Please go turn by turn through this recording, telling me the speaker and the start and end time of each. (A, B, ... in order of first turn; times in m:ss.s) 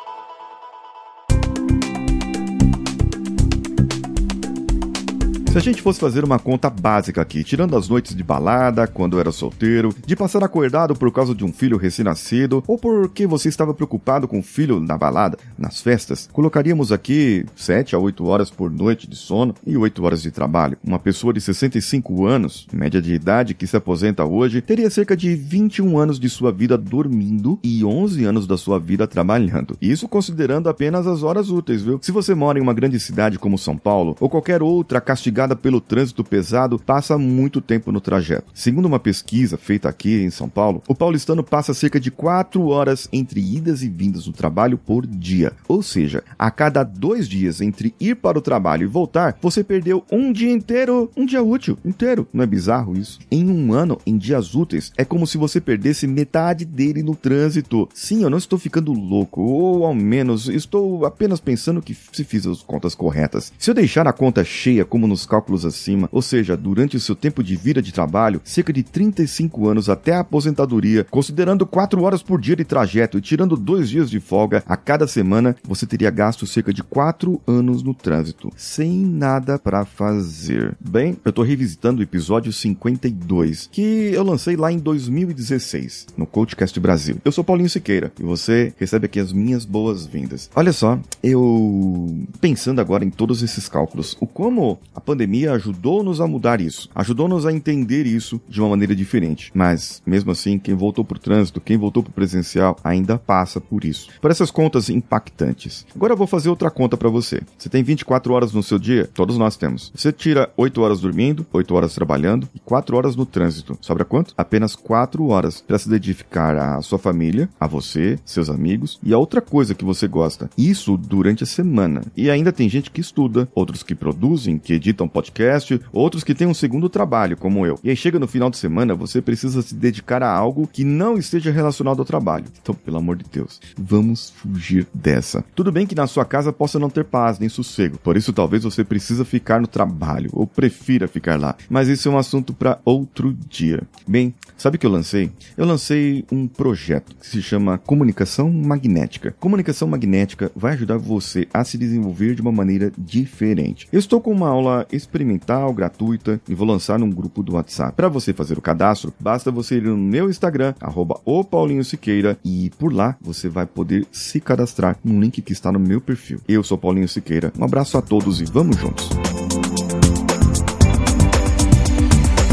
0:05.5-2:49.2 A